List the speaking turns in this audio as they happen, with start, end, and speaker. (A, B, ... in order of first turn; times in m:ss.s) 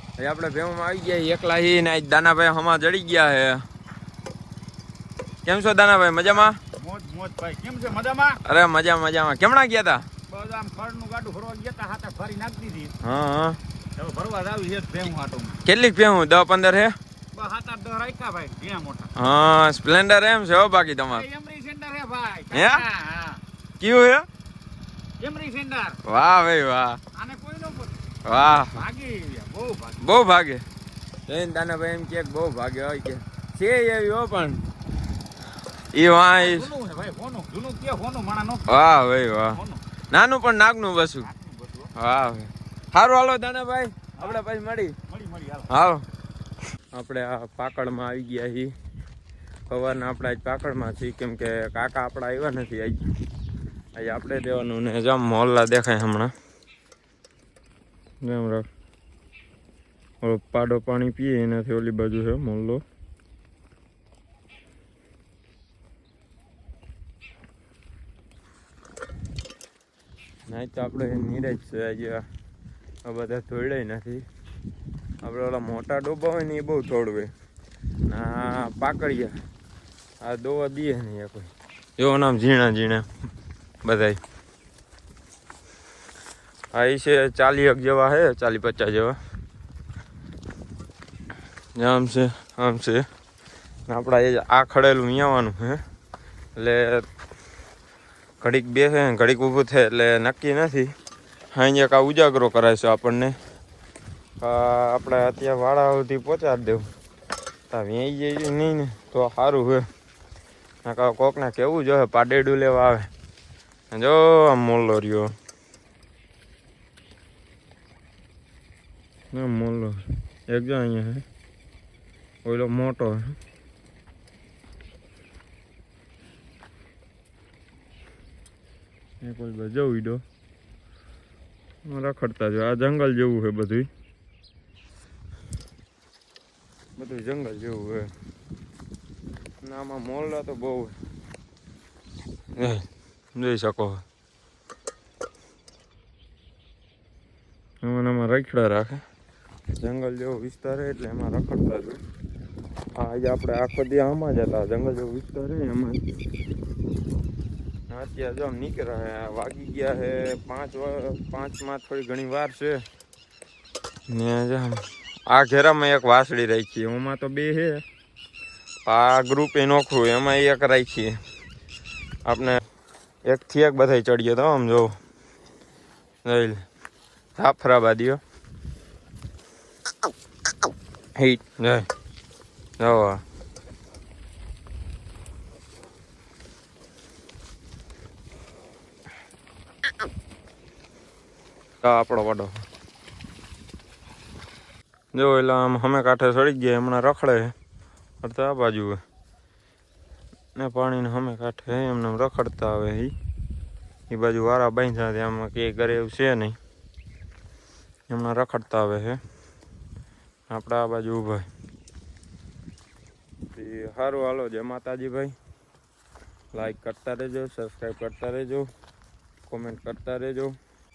0:00.2-0:03.6 A
0:05.4-0:06.6 A
0:06.2-0:08.4 B
0:08.4-0:10.0 A
0:10.3-0:13.0 B
0:13.0-0:13.6 A
0:14.0-0:15.6 B
0:15.6-0:17.0 A
0:17.3-0:19.1 B
0:19.2-0:21.2 A
0:21.1-0:23.4 B
0:22.5-0:22.8 A
0:23.8-0:24.3 A
0:25.2-0:26.0 B
0:26.0-0:27.0 A
0:27.1-0:30.1 B
0:28.2-0:28.8 A
0:30.0-0:30.6 A
0:31.3-0:34.6 A
0:35.9-0:36.7 A
0:36.4-0:38.7 B
0:38.7-0:39.6 A
0:39.5-0:39.8 B
0:40.1-0:41.3 A
0:41.2-0:41.9 B
0:41.9-0:45.0 A
0:45.1-0:45.7 B
0:45.7-0:46.0 A
0:46.9-0:48.7 A
0:49.7-0:53.0 A
0:54.0-0:56.3 A
0:58.2-0:58.7 A
1:00.2-1:02.8 A
1:10.5-1:12.2 A
1:13.0-1:14.2 A
1:15.2-1:17.3 A
1:18.0-1:19.4 A
1:20.2-1:23.1 A
1:23.8-1:24.2 A
1:26.7-1:29.2 A
1:31.8-1:33.0 A
1:33.9-1:35.8 A
1:36.6-1:37.1 A
1:38.4-1:40.9 A
1:41.5-1:43.4 A
1:44.4-1:46.9 A
1:47.7-1:49.9 A
1:50.8-1:53.1 A
1:53.9-1:55.3 A
1:59.3-2:01.2 A
2:02.4-2:03.4 A
2:09.2-2:10.2 A
2:11.9-2:13.9 A
2:17.0-2:18.1 A
2:19.6-2:21.0 A
2:22.6-2:24.0 A
2:27.8-2:29.0 A
2:29.8-2:32.0 A
2:33.0-2:36.0 A
2:37.9-2:42.8 A
2:44.1-2:47.8 A
2:48.8-2:51.2 A
2:52.2-2:52.6 A
2:53.2-2:55.0 A
2:56.2-2:56.6 A
2:57.4-2:58.2 A
3:01.2-3:01.9 A
3:02.8-3:03.2 A
3:11.8-3:12.6 A
3:15.1-3:17.5 A
3:18.2-3:19.0 A
3:20.6-3:23.1 A
3:24.1-3:26.6 A
3:28.1-3:29.2 A
3:30.5-3:31.5 A
3:33.5-3:35.3 A
3:36.5-3:38.7 A
3:39.5-3:40.6 A